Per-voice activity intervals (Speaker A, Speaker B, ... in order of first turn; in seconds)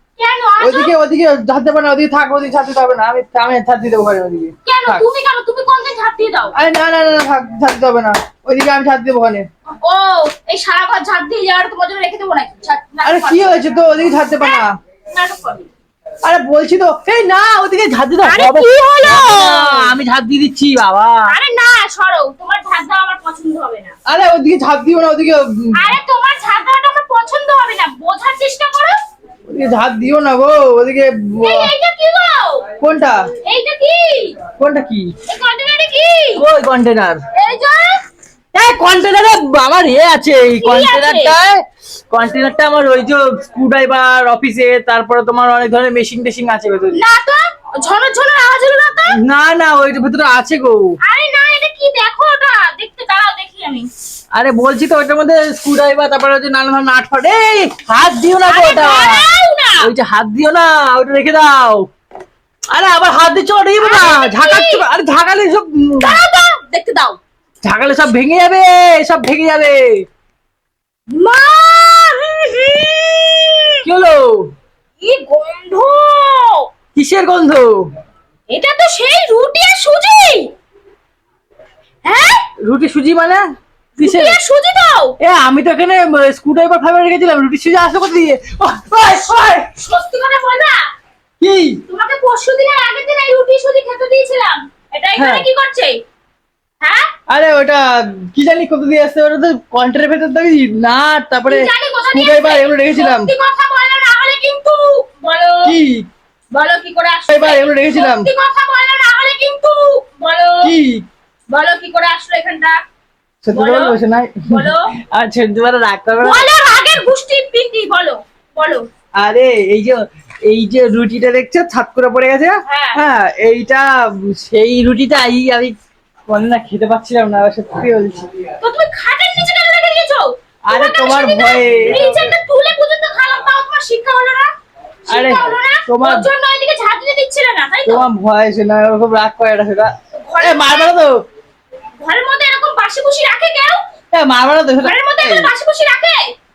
Speaker A: 0.2-0.9, 4.7-6.5, 9.7-13.6, 14.4-15.7, 18.2-19.9, 21.3-23.9, 25.8-29.0, 31.4-32.7, 33.4-34.4, 35.3-36.5, 37.3-38.0, 40.6-41.4, 46.9-49.2, 51.0-53.9, 58.5-59.9, 63.8-64.8, 66.0-67.2, 71.1-73.8, 75.0-76.7, 78.5-80.5, 82.0-82.5, 84.0-85.2, 89.8-90.8, 91.9-96.0, 96.8-97.1, 101.5-105.8, 106.5-110.7, 111.5-112.8, 113.5-114.0, 114.5-114.9, 116.2-118.9, 122.7-123.0, 128.6-134.5, 135.1-138.1, 140.2-140.9, 142.0-143.8, 144.8-146.3
Speaker B: 0.6-5.1, 6.5-9.5, 13.0-14.8, 16.2-21.4, 24.1-25.9, 29.5-31.7, 32.8-33.3, 34.6-35.1, 36.4-37.2, 38.5-47.0, 49.1-51.0, 54.3-59.3, 59.8-61.9, 62.7-66.2, 67.6-70.0, 73.8-74.5, 77.0-77.9, 82.6-83.5, 84.0-84.4, 85.2-89.7, 91.4-91.8, 95.2-95.5, 97.3-103.3, 105.6-106.1, 107.3-108.3, 110.6-111.1, 113.4-117.0, 119.2-125.8, 126.3-128.3, 130.7-132.3, 135.1-136.3, 137.9-141.2, 144.1-145.5